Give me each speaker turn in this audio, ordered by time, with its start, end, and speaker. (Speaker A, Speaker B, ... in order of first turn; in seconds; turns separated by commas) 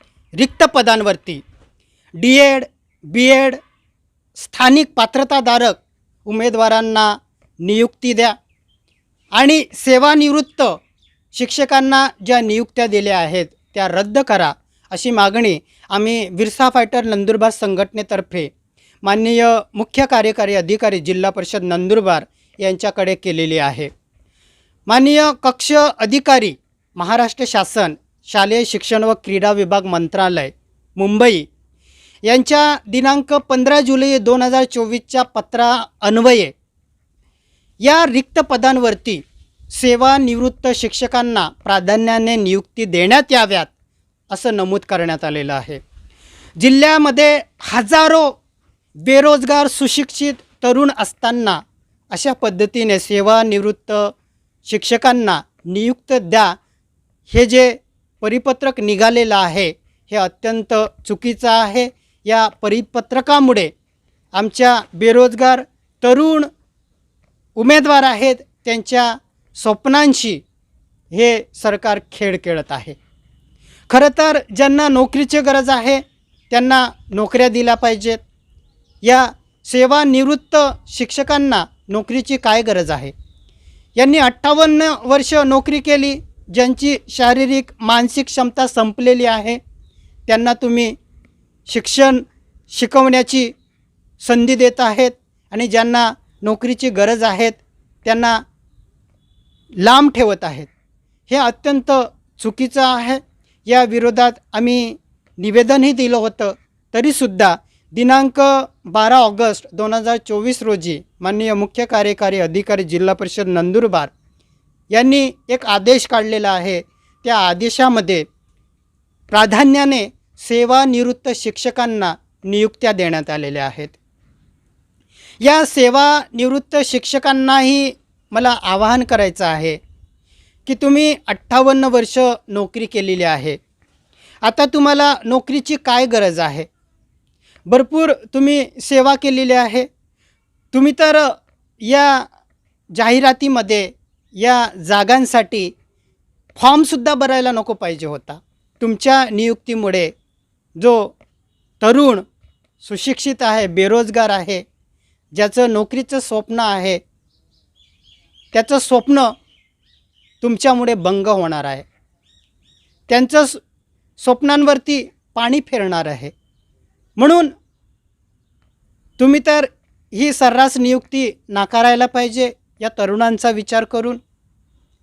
Speaker A: 0.4-1.4, Speaker A: 2.2-3.6, Speaker A: 4.3-8.3, Speaker A: 9.3-10.8, Speaker A: 11.3-18.5, Speaker A: 19.0-23.9, Speaker A: 24.9-31.5, Speaker A: 32.2-36.5, Speaker A: 37.8-43.7, Speaker A: 44.3-45.8, Speaker A: 46.6-48.4, Speaker A: 49.0-54.1, Speaker A: 54.6-56.5, Speaker A: 57.3-63.7, Speaker A: 64.3-66.5, Speaker A: 67.5-70.4, Speaker A: 71.1-73.0, Speaker A: 73.9-78.2, Speaker A: 79.0-83.1, Speaker A: 84.0-89.6, Speaker A: 90.3-91.0, Speaker A: 91.7-93.5, Speaker A: 94.2-98.4, Speaker A: 99.8-100.7, Speaker A: 101.3-114.1, Speaker A: 114.9-118.3, Speaker A: 119.3-124.0, Speaker A: 125.4-129.8, Speaker A: 130.7-133.6, Speaker A: 134.4-136.7, Speaker A: 137.7-139.9, Speaker A: 140.7-142.3, Speaker A: 142.9-145.7, Speaker A: 146.6-150.1, Speaker A: 150.8-151.1, Speaker A: 151.8-152.2, Speaker A: 152.8-154.6, Speaker A: 155.3-157.0, Speaker A: 158.5-159.3, Speaker A: 160.4-161.8, Speaker A: 163.1-163.6, Speaker A: 164.2-166.3, Speaker A: 167.2-167.5, Speaker A: 169.2-174.2